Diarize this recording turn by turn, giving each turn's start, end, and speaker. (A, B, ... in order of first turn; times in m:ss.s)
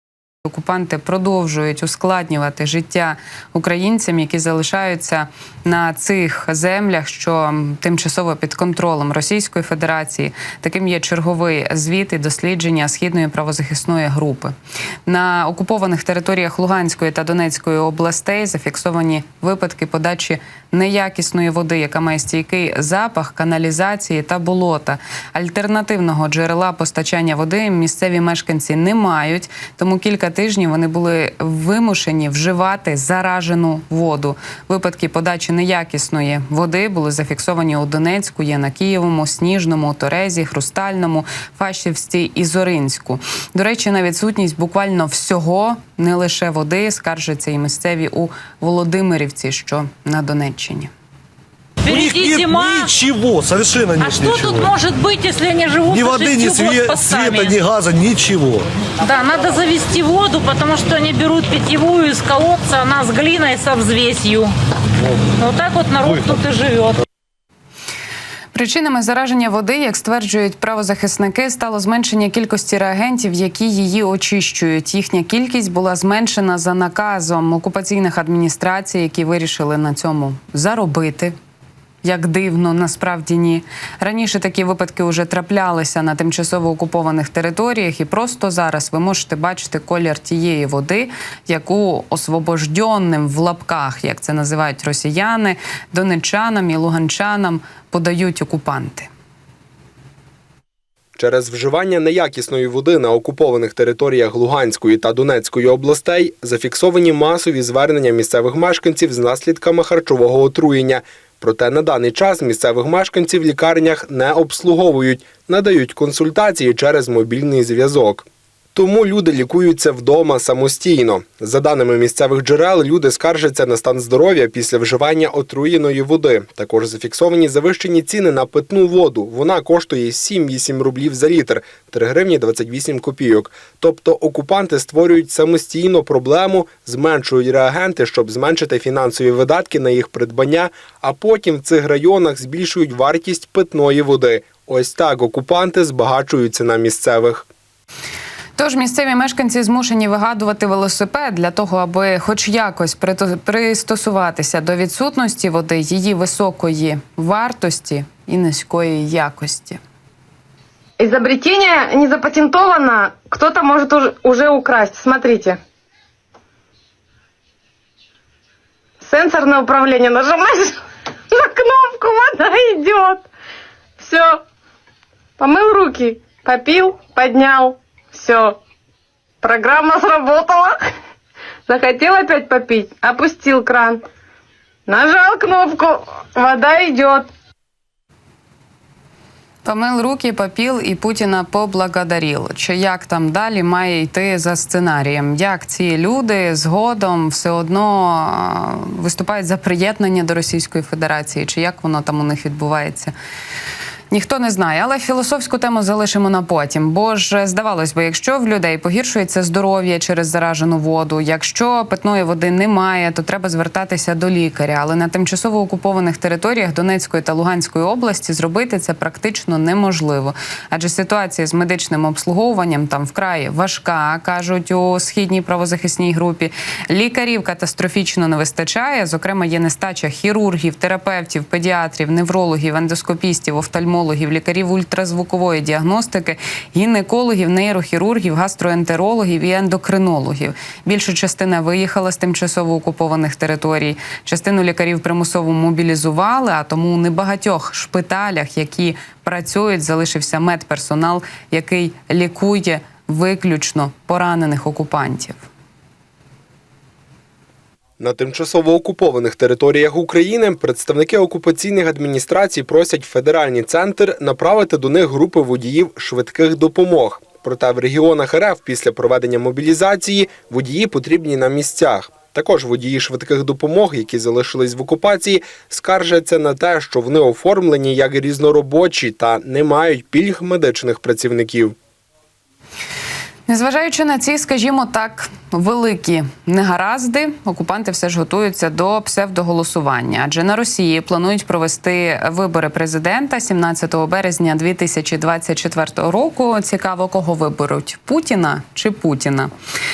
0:00.5-0:14.6 A
0:15.1-0:50.9 A
0:51.8-0:54.8 B
0:51.9-0:52.7 C
0:54.1-0:57.3 C
0:55.8-0:58.7 B
0:59.0-1:04.5 C
1:05.4-1:07.0 C
1:08.5-1:21.4 A
1:22.0-1:39.1 A
1:41.2-2:27.5 D
2:28.6-2:39.8 A
2:41.0-2:45.6 E
2:49.0-2:50.8 E
2:51.3-2:53.3 E
2:54.0-2:54.4 E
2:55.4-2:58.6 E
2:59.4-3:00.8 E
3:01.7-3:04.0 E
3:04.9-3:07.3 E
3:09.6-3:23.1 A
3:24.1-4:15.4 A
4:18.0-4:41.8 D
4:43.5-4:59.5 A